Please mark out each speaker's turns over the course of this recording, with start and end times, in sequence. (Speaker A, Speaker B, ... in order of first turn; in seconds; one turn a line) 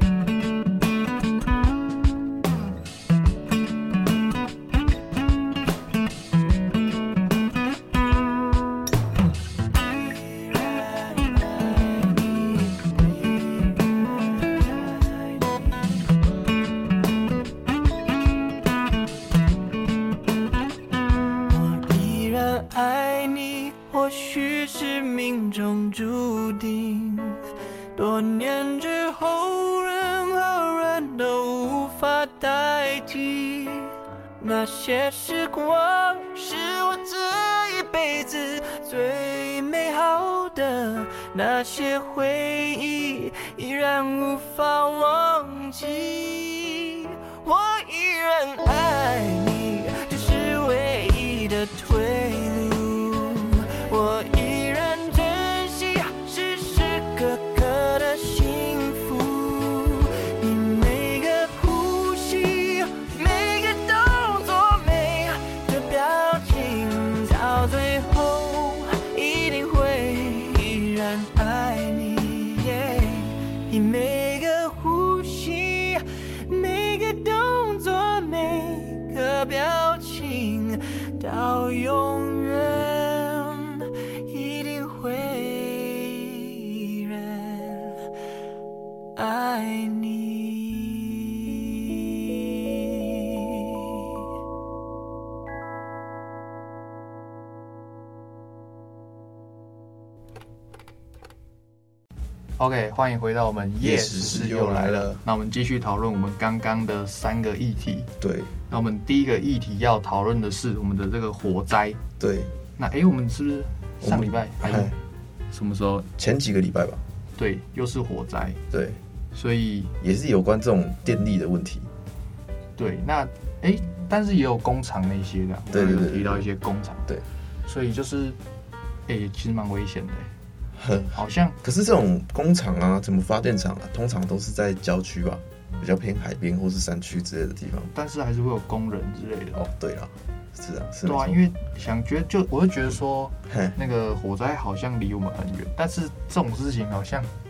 Speaker A: 9.8-16.0
Speaker A: 21.5-27.4
Speaker A: 28.0-88.0
Speaker A: 89.2-93.8
Speaker B: 102.6-108.1
Speaker C: 103.8-105.2
Speaker C: 108.2-108.5
Speaker B: 108.7-112.0
Speaker C: 112.2-112.5
Speaker B: 112.8-115.0
Speaker C: 114.0-115.0
Speaker B: 115.5-116.1
Speaker C: 116.2-117.0
Speaker B: 117.4-118.6
Speaker C: 118.7-119.0
Speaker B: 119.3-120.0
Speaker C: 120.0-121.9
Speaker B: 122.8-127.1
Speaker C: 125.7-126.5
Speaker B: 127.7-128.4
Speaker B: 129.1-130.3
Speaker C: 130.7-137.9
Speaker B: 131.1-131.6
Speaker B: 137.9-139.6
Speaker C: 139.6-141.4
Speaker B: 141.1-147.3
Speaker C: 143.5-143.8